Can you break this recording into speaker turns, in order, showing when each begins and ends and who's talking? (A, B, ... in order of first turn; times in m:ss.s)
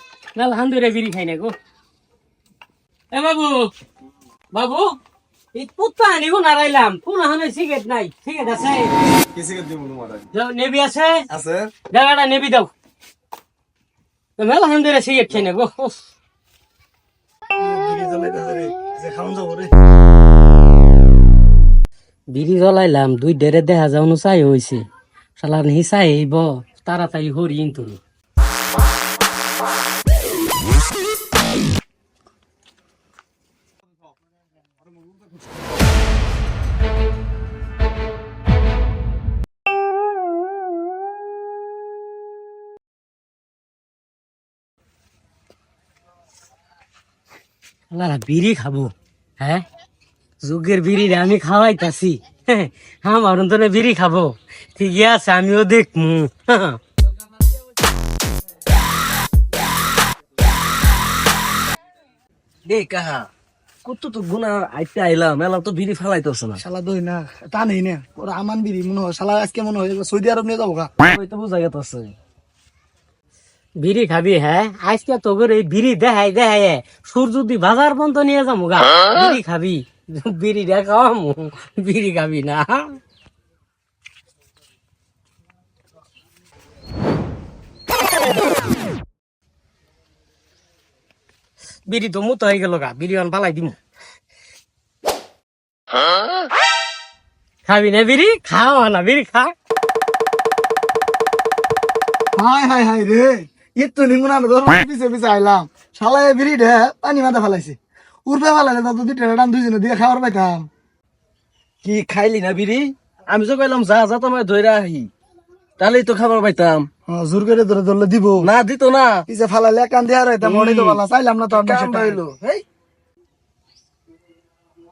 0:00.4-0:01.5 A
0:03.1-0:03.7 A
0:04.5-0:04.9 A
0:05.5-0:08.9 A
0:09.3-0:10.2 B
0:10.3-0:11.2 A
0:11.3-0:11.7 B
0:11.9-0:12.7 A
0:14.4-0:16.0 A
0:17.6-0:19.7 C
0:22.3-0:24.8 A
0:25.4-0:28.0 A
0:47.9-0:49.6 A
0:50.4-0:56.8 A
1:02.6-1:03.3 B
1:03.8-1:06.6 B
1:06.6-1:10.9 C
1:11.1-1:12.1 B
1:13.8-1:23.0 A
1:31.9-1:33.8 A
1:37.6-1:39.5 A
1:42.4-1:50.7 C
1:51.8-1:55.1 B
1:55.8-1:56.9 B
1:57.1-1:58.5 C
1:58.4-1:59.2 B
1:59.3-2:02.2 C
2:00.4-2:02.6 B